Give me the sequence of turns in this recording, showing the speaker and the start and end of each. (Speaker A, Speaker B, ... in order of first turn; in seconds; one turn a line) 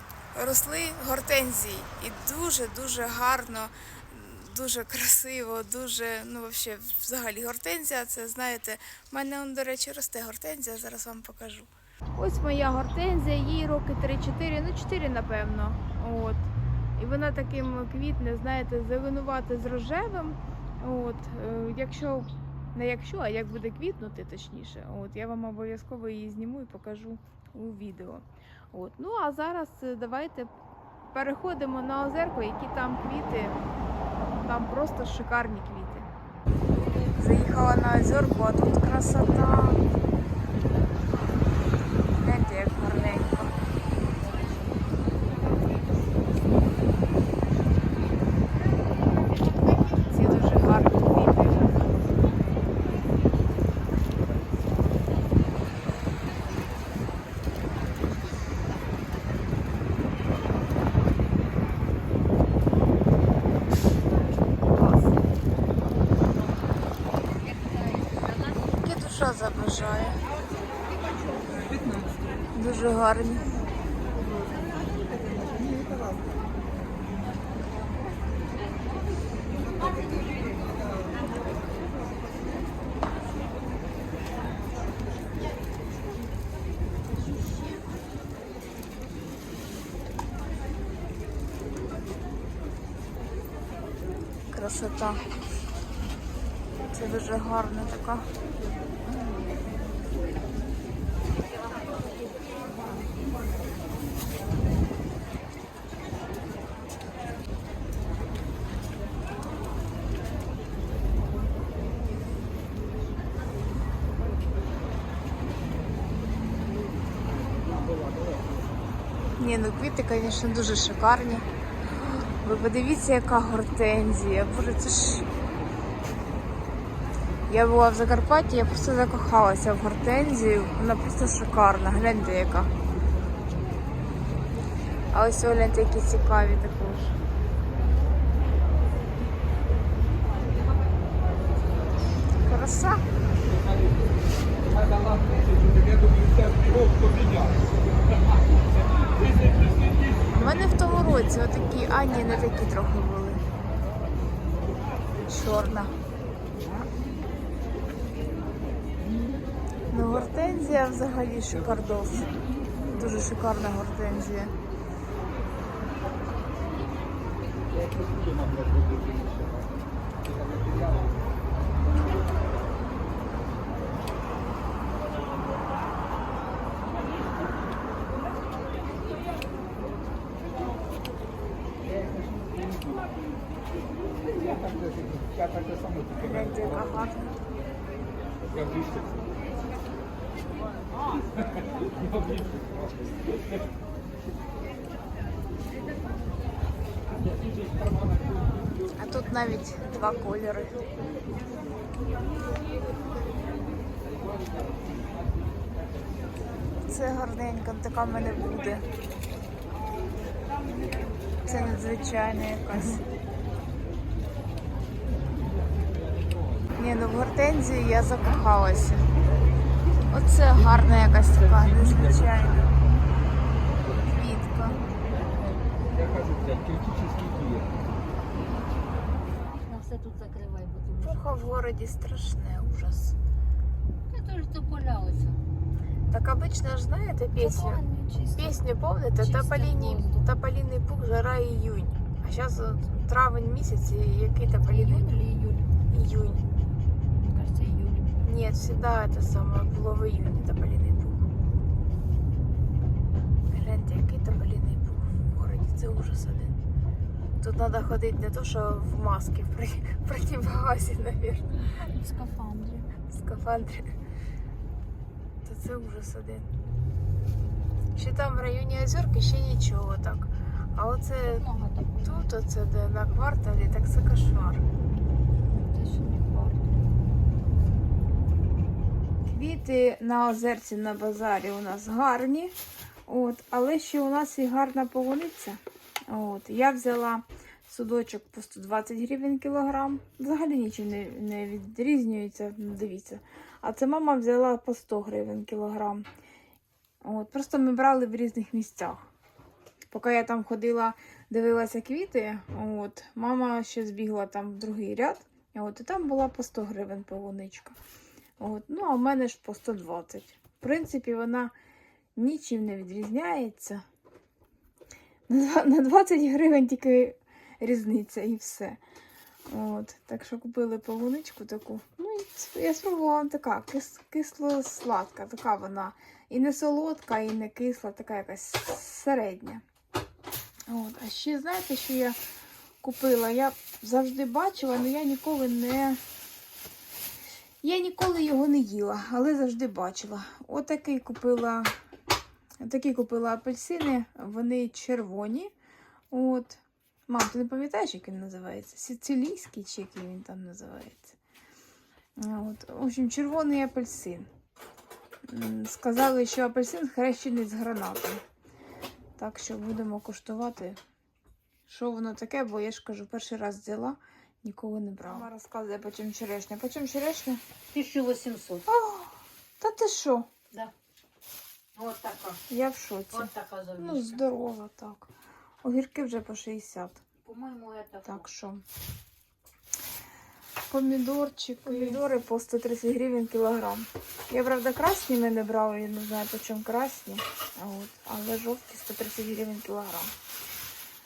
Speaker A: 0.3-30.5
Speaker A: 31.1-33.6
Speaker A: 34.2-36.1
Speaker A: 37.1-39.8
Speaker A: 42.1-43.5
Speaker A: 50.0-51.9
Speaker A: 64.7-65.1
Speaker B: 67.5-68.5
Speaker A: 68.8-70.2
Speaker A: 72.5-73.5
Speaker A: 94.5-95.2
Speaker A: 96.9-98.3
Speaker C: 117.8-118.4
Speaker A: 119.4-121.5
Speaker A: 122.0-125.3
Speaker A: 127.5-132.7
Speaker A: 135.1-137.1
Speaker A: 142.4-143.0
Speaker C: 143.6-143.9
Speaker C: 144.8-147.6
Speaker A: 150.3-153.4
Speaker A: 155.3-155.9
Speaker A: 159.9-162.3
Speaker A: 162.9-164.5
Speaker C: 167.7-169.7
Speaker C: 170.4-170.8
Speaker C: 182.0-183.0
Speaker C: 184.3-186.1
Speaker A: 186.1-187.3
Speaker C: 188.6-189.2
Speaker C: 192.0-192.5
Speaker A: 198.9-200.8
Speaker A: 206.9-208.9
Speaker A: 211.4-213.0
Speaker A: 216.7-219.1
Speaker A: 220.1-222.8
Speaker A: 224.0-224.8
Speaker C: 226.0-227.7
Speaker B: 229.3-231.4
Speaker A: 231.0-233.2
Speaker B: 234.1-235.4
Speaker A: 236.1-237.8
Speaker B: 237.4-238.6
Speaker A: 238.3-245.2
Speaker B: 239.2-240.2
Speaker B: 244.6-245.8
Speaker A: 245.9-246.4
Speaker B: 247.2-248.2
Speaker A: 248.2-251.2
Speaker A: 253.5-256.6
Speaker A: 257.4-261.7
Speaker B: 261.8-262.9
Speaker A: 263.1-263.9
Speaker A: 265.4-266.5
Speaker A: 267.9-271.4
Speaker B: 271.2-272.2
Speaker A: 272.0-274.6
Speaker B: 275.5-277.1
Speaker A: 279.2-282.5
Speaker A: 283.1-296.0
Speaker A: 297.0-299.1
Speaker A: 299.9-307.8
Speaker A: 308.4-311.5
Speaker A: 312.1-313.8
Speaker A: 315.3-318.8
Speaker A: 319.5-329.6
Speaker A: 330.7-332.2
Speaker A: 332.8-336.0
Speaker A: 337.6-341.7
Speaker A: 342.6-345.5
Speaker A: 346.1-351.1
Speaker A: 352.2-354.3
Speaker A: 355.3-358.2
Speaker A: 359.2-360.8
Speaker A: 361.7-367.4
Speaker B: 367.7-368.7
Speaker A: 368.6-370.3
Speaker B: 371.7-372.4
Speaker A: 372.5-375.1
Speaker B: 373.1-374.2
Speaker A: 375.6-377.0
Speaker B: 377.2-378.2
Speaker A: 378.0-378.6
Speaker A: 380.7-390.1
Speaker B: 381.6-382.0